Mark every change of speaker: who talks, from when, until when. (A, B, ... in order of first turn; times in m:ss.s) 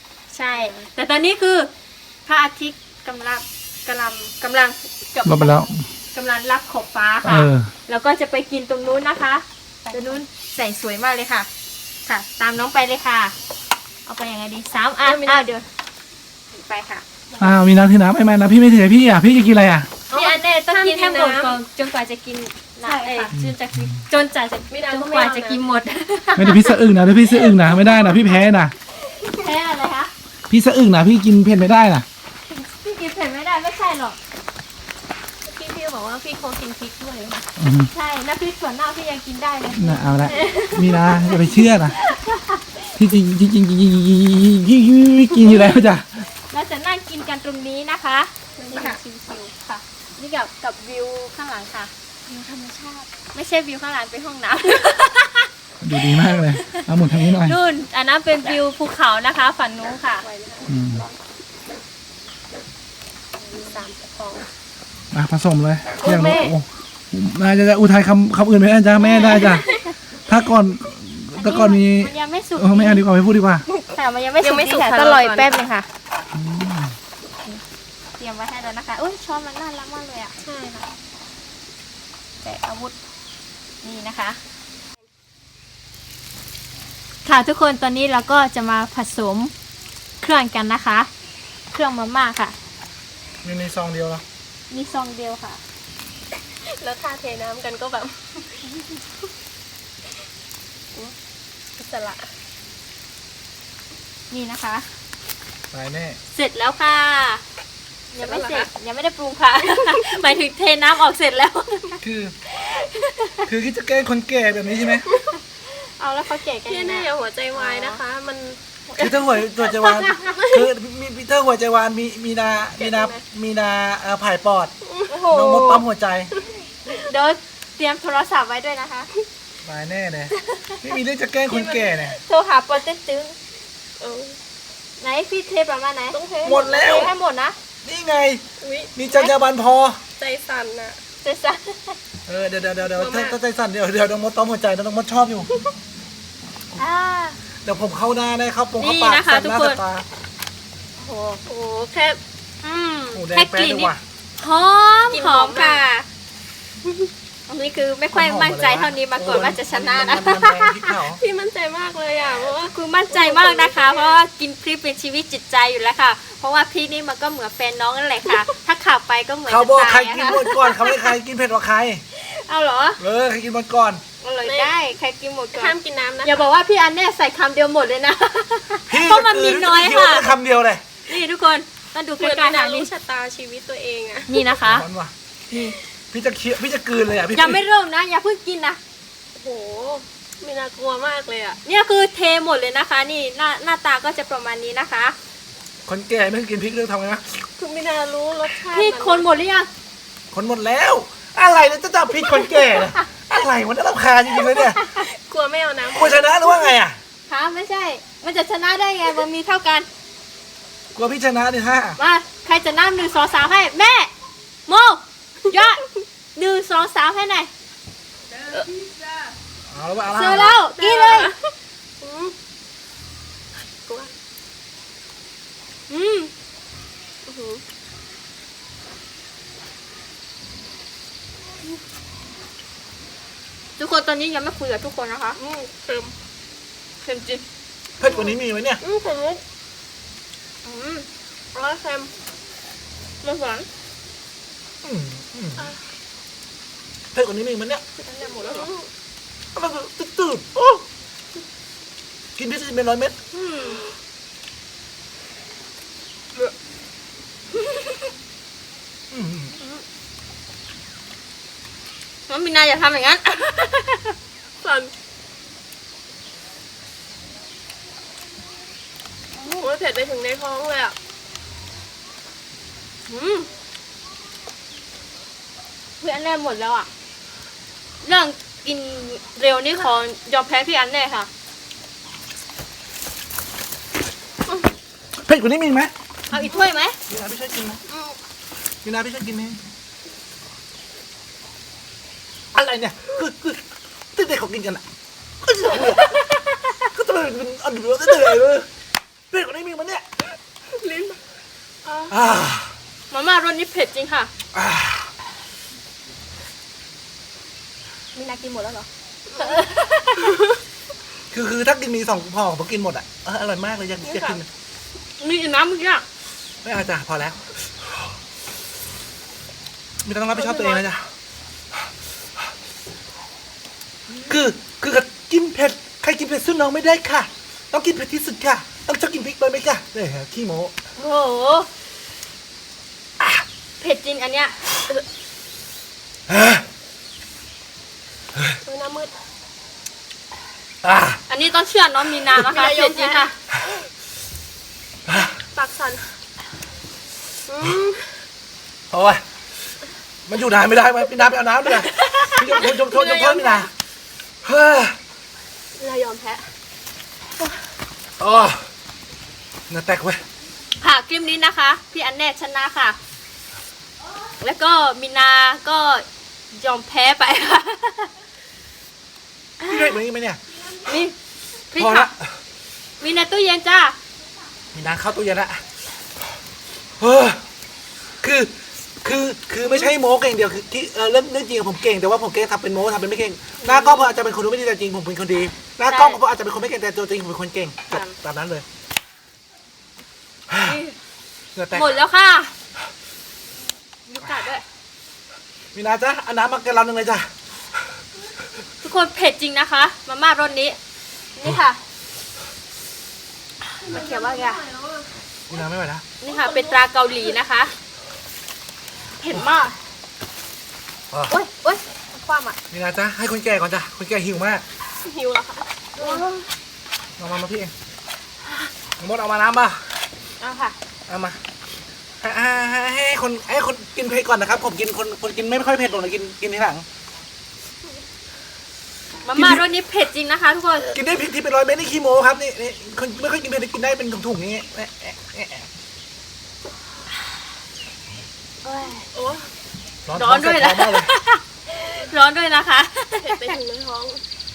0:00.3-0:01.7 A
0:00.5-0:00.9 B
0:02.2-0:11.5 A
0:05.2-0:05.8 C
0:07.2-0:07.7 C
0:09.8-0:10.2 B
0:12.0-0:13.3 A
0:14.0-0:15.6 A
0:15.0-0:15.5 B
0:16.5-0:17.0 A
0:17.3-0:17.6 B
0:17.4-0:19.9 C
0:20.1-0:21.6 B
0:20.1-0:28.4 A
0:22.8-0:23.3 B
0:23.3-0:23.8 C
0:24.7-0:25.6 B
0:26.4-0:28.7 C
0:29.0-0:30.1 A
0:30.5-0:32.0 C
0:32.5-0:34.2 A
0:35.4-0:37.5 B
0:37.6-0:37.9 C
0:37.9-0:42.7 A
0:39.7-0:42.0 C
0:43.0-0:46.2 C
0:46.5-0:49.0 A
0:48.6-0:49.5 B
0:49.6-1:00.2 A
0:55.8-0:57.6 C
1:00.2-1:01.1 B
1:00.7-1:01.0 C
1:03.4-1:04.4 B
1:05.1-1:09.6 C
1:06.0-1:06.5 B
1:09.0-1:09.7 A
1:09.2-1:09.8 B
1:10.2-1:13.6 C
1:11.3-1:13.0 A
1:13.9-1:15.9 A
1:14.4-1:15.6 B
1:16.3-1:16.9 C
1:18.2-1:20.3 A
1:20.4-1:20.9 B
1:22.4-1:22.9 A
1:23.8-1:24.4 A
1:27.2-1:29.5 A
1:30.2-1:31.1 A
1:31.7-1:32.5 A
1:33.4-1:34.2 C
1:34.7-1:35.6 A
1:36.6-1:38.6 B
1:41.8-1:42.3 B
1:44.3-1:44.8 A
1:45.7-1:46.2 C
1:46.3-1:47.4 A
1:48.1-1:52.0 A
1:48.2-1:48.7 B
1:52.0-1:52.3 C
1:52.6-1:53.4 A
1:53.4-1:55.1 C
1:55.0-1:55.4 B
1:55.7-1:58.0 A
1:56.7-1:59.4 B
1:59.0-2:04.7 C
1:59.8-2:00.4 A
2:02.8-2:03.2 B
2:04.8-2:05.2 B
2:05.1-2:05.8 A
2:05.3-2:06.3 C
2:06.9-2:09.1 A
2:09.6-2:12.2 C
2:11.5-2:13.4 A
2:14.0-2:14.4 B
2:15.0-2:16.2 A
2:16.1-2:17.1 B
2:16.4-2:17.1 C
2:16.8-2:17.6 A
2:17.8-2:18.4 C
2:18.6-2:18.9 B
2:19.0-2:20.0 C
2:20.2-2:21.0 B
2:21.2-2:22.0 A
2:22.3-2:25.5 C
2:22.8-2:23.4 B
2:26.8-2:27.4 A
2:27.6-2:30.0 C
2:28.8-2:29.8 A
2:31.0-2:31.4 A
2:31.4-2:32.2 B
2:32.6-2:36.0 A
2:33.1-2:34.0 C
2:35.1-2:35.8 B
2:37.5-2:40.9 A
2:38.1-2:41.2 C
2:41.0-2:44.2 B
2:42.6-2:51.1 A
2:49.5-2:52.0 C
2:52.1-2:53.0 A
2:53.0-2:54.0 C
2:54.2-3:00.3 A
2:54.4-2:54.7 B
2:55.5-2:56.4 B
2:58.9-3:00.8 C
3:01.0-3:02.9 A
3:02.2-3:04.4 B
3:04.3-3:04.8 A
3:04.6-3:07.6 C
3:07.3-3:08.8 A
3:09.4-3:11.6 B
3:11.6-3:15.1 A
3:15.8-3:17.4 C
3:17.6-3:19.2 B
3:18.7-3:19.7 A
3:20.3-3:24.8 C
3:24.4-3:26.7 B
3:25.9-3:27.0 C
3:27.3-3:29.9 A
3:30.9-3:32.0 C
3:32.0-3:34.1 A
3:34.7-3:35.8 A
3:36.3-3:37.5 A
3:38.5-3:38.8 B
3:39.7-3:40.5 C
3:40.1-3:41.3 A
3:40.2-3:42.3 B
3:43.8-3:44.1 B
3:45.9-3:46.3 A
3:47.2-3:47.6 B
3:53.8-3:55.4 A
3:55.4-3:56.1 B
3:57.0-3:57.4 A
3:58.0-3:58.8 C
3:58.0-3:59.4 B
4:00.6-4:01.1 A
4:01.5-4:02.1 B
4:03.2-4:03.7 A
4:04.8-4:05.7 C
4:07.1-4:07.8 C
4:08.0-4:08.9 B
4:09.5-4:10.8 C
4:12.4-4:13.2 C
4:13.3-4:13.8 A
4:19.1-4:19.5 C
4:22.3-4:24.1 A
4:24.6-4:24.9 B
4:29.5-4:31.0 B
4:33.1-4:33.5 A
4:36.0-4:36.9 A
4:38.0-4:41.3 A
4:45.2-4:45.9 C
4:46.3-4:47.0 A
4:47.1-4:47.8 C
4:47.9-4:48.1 B
4:48.8-4:49.6 C
4:52.5-4:53.6 C
4:54.1-4:54.8 C
4:55.4-4:56.1 C
4:56.8-4:58.7 C
4:59.3-5:00.0 C
5:00.7-5:01.2 B
5:01.8-5:02.2 B
5:02.1-5:02.7 C
5:03.1-5:04.3 A
5:04.5-5:05.1 C
5:08.1-5:10.3 A
5:09.3-5:10.6 B
5:11.3-5:14.5 C
5:14.0-5:14.4 B
5:15.2-5:16.0 A
5:16.6-5:17.5 C
5:20.0-5:21.1 C
5:20.3-5:20.9 B
5:24.3-5:30.7 C
5:31.0-5:31.7 A
5:33.8-5:34.5 A
5:36.3-5:36.6 C
5:38.6-5:39.1 B
5:40.8-5:41.2 C
5:41.3-5:43.3 A
5:42.3-5:43.3 B
5:45.5-5:46.1 B
5:47.5-5:48.2 B
5:48.9-5:49.2 C
5:50.3-5:53.7 C
5:51.6-5:53.7 B
5:54.4-5:55.0 C
5:55.8-5:56.5 B
5:58.2-5:58.6 C
5:59.7-6:00.2 C
6:00.8-6:03.0 A
6:04.4-6:08.1 A
6:09.6-6:09.9 A
6:09.6-6:10.4 C
6:10.8-6:11.1 A
6:11.7-6:12.1 A
6:11.8-6:12.3 C
6:13.0-6:14.0 A
6:14.7-6:15.6 C
6:17.0-6:17.4 C
6:18.2-6:28.6 C
6:23.6-6:24.1 A
6:25.9-6:26.2 A
6:27.9-6:28.1 A
6:30.5-6:30.8 C
6:30.6-6:31.0 A
6:31.5-6:31.9 C
6:31.7-6:32.5 A
6:34.1-6:34.6 A
6:35.7-6:37.3 C
6:38.8-6:40.8 A
6:41.4-6:41.8 A
6:43.8-6:44.6 A
6:43.8-6:45.0 B
6:45.5-6:46.0 C
6:46.2-6:47.7 A
6:46.3-6:46.8 B
6:49.2-6:49.8 A
6:51.3-6:51.8 A
6:52.2-6:52.5 B
6:52.7-6:54.6 C
6:55.0-6:56.4 B
6:56.0-6:56.3 A
6:57.2-6:57.7 C
6:59.0-6:59.8 C
7:00.4-7:00.7 A
7:01.1-7:01.4 C
7:02.2-7:06.8 C
7:09.2-7:11.0 A
7:09.3-7:09.6 C
7:10.9-7:15.7 C
7:18.6-7:19.0 A
7:19.1-7:19.5 B
7:20.0-7:21.1 C
7:20.1-7:23.6 A
7:23.2-7:24.2 B